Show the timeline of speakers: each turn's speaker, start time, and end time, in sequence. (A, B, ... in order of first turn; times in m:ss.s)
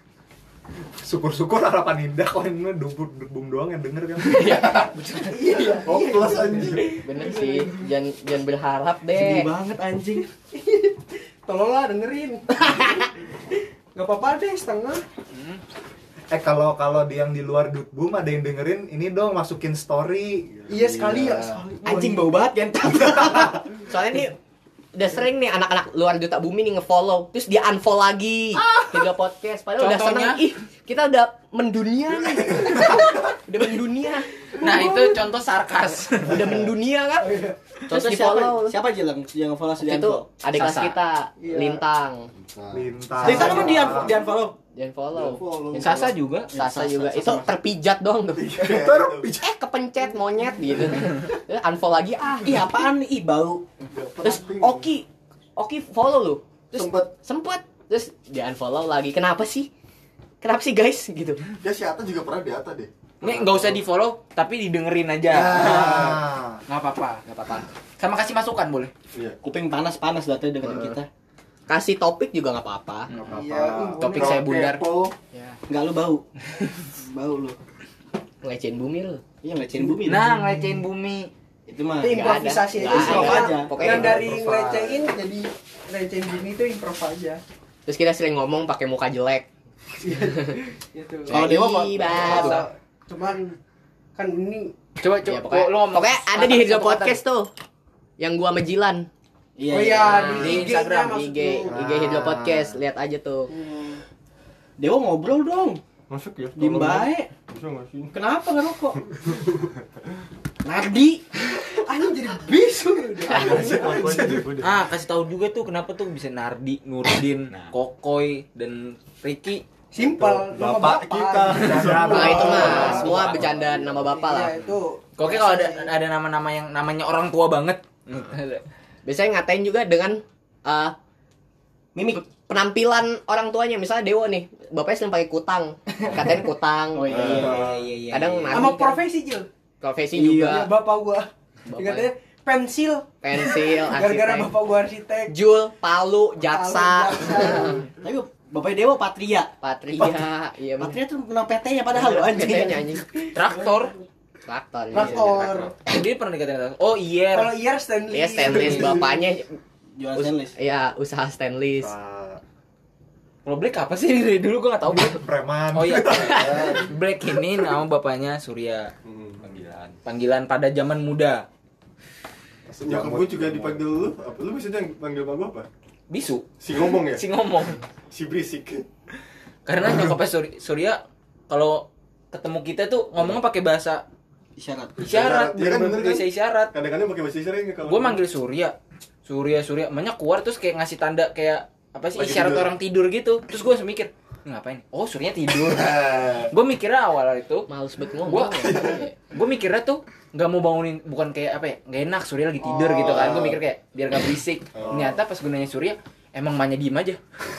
0:01.0-0:04.9 A
0:04.6-0:07.9 B
0:05.8-0:07.1 C
0:07.0-0:09.5 D
0:09.1-0:10.3 E
0:10.5-0:13.0 B
0:14.0-0:15.0 B
0:15.3-0:15.6 F
0:16.3-0:21.2 A
0:20.7-0:21.5 C
0:20.7-0:22.4 B
0:21.8-0:23.7 E
0:23.1-0:23.5 A
0:23.9-0:24.4 D
0:24.9-0:34.3 D
0:29.8-0:30.5 F
0:34.6-0:35.3 B
0:34.6-0:36.6 F
0:36.2-0:37.3 D
0:37.2-0:37.6 B
0:37.9-0:40.3 E
0:37.9-0:38.8 D
0:39.8-0:42.3 D
0:40.6-0:41.0 F
0:41.4-0:41.8 B
0:42.6-0:43.8 C
0:42.7-0:44.2 A
0:43.2-0:43.8 D
0:43.2-0:44.6 E
0:44.8-0:48.7 D
0:45.1-0:46.2 C
0:45.7-0:47.5 F
0:48.3-0:49.4 C
0:48.6-0:49.5 A
0:49.4-0:52.6 D
0:52.4-0:53.6 E
0:53.9-0:54.9 C
0:54.2-0:59.7 D
0:56.7-0:57.1 C
1:00.4-1:01.4 D
1:01.6-1:03.8 C
1:03.2-1:08.9 F
1:05.4-1:06.1 C
1:05.5-1:06.6 A
1:09.4-1:11.1 E
1:10.6-1:11.0 D
1:11.7-1:13.1 D
1:13.1-1:13.4 F
1:13.3-1:13.9 A
1:13.3-1:14.4 B
1:13.5-1:15.2 C
1:14.0-1:14.8 F
1:15.3-1:15.6 D
1:15.7-1:17.6 E
1:18.4-1:19.2 D
1:19.4-1:20.4 E
1:20.1-1:21.3 F
1:20.2-1:20.8 A
1:21.7-1:24.0 E
1:22.0-1:27.4 B
1:22.0-1:24.3 D
1:23.8-1:24.9 A
1:27.9-1:29.5 D
1:30.0-1:31.5 B
1:31.3-1:32.6 D
1:31.3-1:32.6 E
1:32.1-1:33.6 B
1:34.2-1:34.7 B
1:35.0-1:37.2 F
1:35.2-1:37.5 D
1:38.2-1:39.1 D
1:39.6-1:40.4 E
1:39.7-1:41.9 B
1:40.0-1:41.2 F
1:40.0-1:43.5 D
1:41.7-1:42.8 A
1:43.6-1:44.0 B
1:44.8-1:45.8 E
1:46.1-1:48.2 C
1:46.6-1:47.3 E
1:48.1-1:49.0 E
1:50.6-1:51.3 E
1:51.8-1:54.3 B
1:53.3-1:54.8 C
1:53.3-1:54.7 A
1:54.6-1:59.6 F
1:59.9-2:03.0 B
2:00.0-2:03.9 C
2:00.3-2:03.5 A
2:02.1-2:04.6 D
2:04.1-2:05.9 B
2:05.2-2:08.6 F
2:09.0-2:11.0 D
2:12.0-2:12.2 E
2:12.1-2:17.4 D
2:16.9-2:17.7 E
2:17.1-2:17.8 C
2:17.2-2:18.6 F
2:18.1-2:19.0 D
2:18.5-2:19.5 B
2:19.8-2:20.7 D
2:20.2-2:20.6 E
2:20.3-2:25.3 B
2:21.7-2:22.1 D
2:23.2-2:24.5 D
2:25.3-2:27.8 D
2:26.4-2:27.9 B
2:28.0-2:30.1 E
2:29.6-2:31.0 D
2:30.8-2:33.6 E
2:31.9-2:33.1 D
2:33.3-2:33.9 F
2:34.5-2:35.6 D
2:34.9-2:35.8 B
2:35.7-2:37.6 F
2:37.3-2:39.0 B
2:38.1-2:39.6 D
2:38.4-2:39.0 F
2:40.0-2:40.6 E
2:40.2-2:41.9 D
2:41.8-2:42.4 A
2:43.4-2:51.5 F
2:44.8-2:46.8 A
2:46.2-2:46.9 C
2:46.4-2:46.8 D
2:49.0-2:49.6 C
2:52.7-2:53.8 A
2:52.8-2:55.7 C
2:56.1-2:57.8 F
2:56.6-2:57.2 C
2:58.1-2:58.9 C
2:59.7-3:04.0 F
2:59.9-3:00.1 A
3:04.6-3:05.0 E
3:05.0-3:08.2 C
3:05.0-3:06.7 F
3:07.8-3:17.7 F
3:12.2-3:12.8 C
3:15.5-3:16.5 C
3:17.7-3:19.1 D
3:18.3-3:27.2 F
3:18.6-3:19.0 C
3:22.6-3:23.6 C
3:24.7-3:25.2 C